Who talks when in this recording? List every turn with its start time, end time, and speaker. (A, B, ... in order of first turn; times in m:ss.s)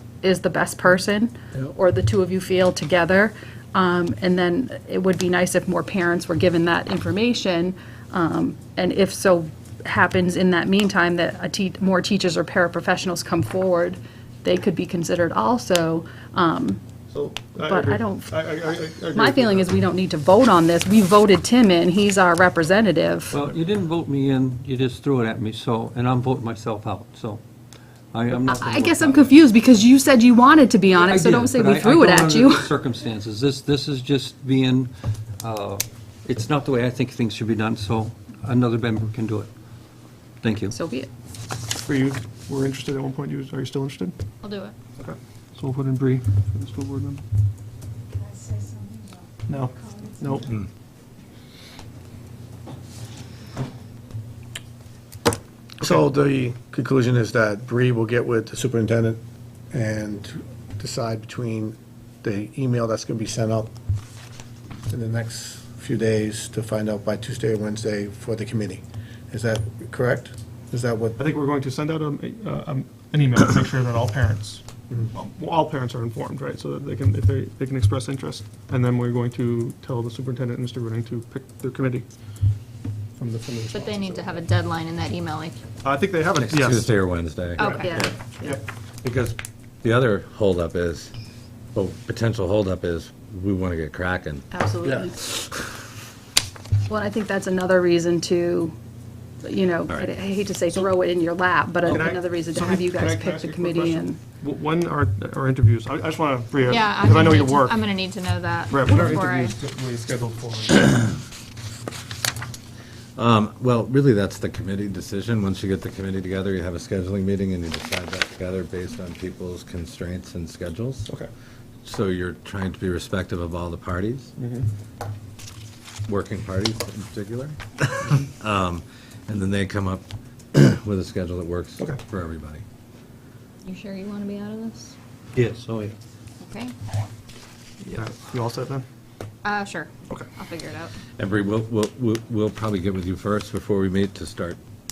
0:00.2-0:16.8 A
0:17.1-0:19.8 B
0:17.6-0:18.5 A
0:19.1-0:23.4 A
0:23.3-0:27.4 C
0:28.1-0:29.4 C
0:28.5-0:32.7 A
0:30.9-0:39.5 C
0:40.4-0:40.8 C
0:40.7-0:41.1 A
0:41.8-0:44.2 B
0:44.4-0:44.7 D
0:45.0-0:47.2 B
0:49.5-0:50.6 B
0:55.8-1:03.7 E
1:04.9-1:11.2 E
1:11.2-1:22.1 B
1:23.2-1:24.4 B
1:23.7-1:25.6 D
1:25.8-1:27.0 B
1:26.4-1:28.0 F
1:27.6-1:28.6 A
1:27.6-1:29.3 B
1:29.8-1:31.1 F
1:31.8-1:34.4 F
1:34.5-1:35.2 A
1:34.8-1:35.1 B
1:36.9-1:38.8 A
1:39.4-1:44.2 A
1:41.8-1:48.0 B
1:46.6-1:49.5 D
1:48.7-1:50.9 B
1:53.2-2:01.1 F
2:01.8-2:04.3 F
2:04.4-2:04.7 B
2:06.1-2:12.6 F
2:13.6-2:15.0 D
2:15.4-2:15.9 C
2:16.4-2:16.8 D
2:17.8-2:18.8 B
2:19.4-2:20.9 D
2:21.2-2:24.6 F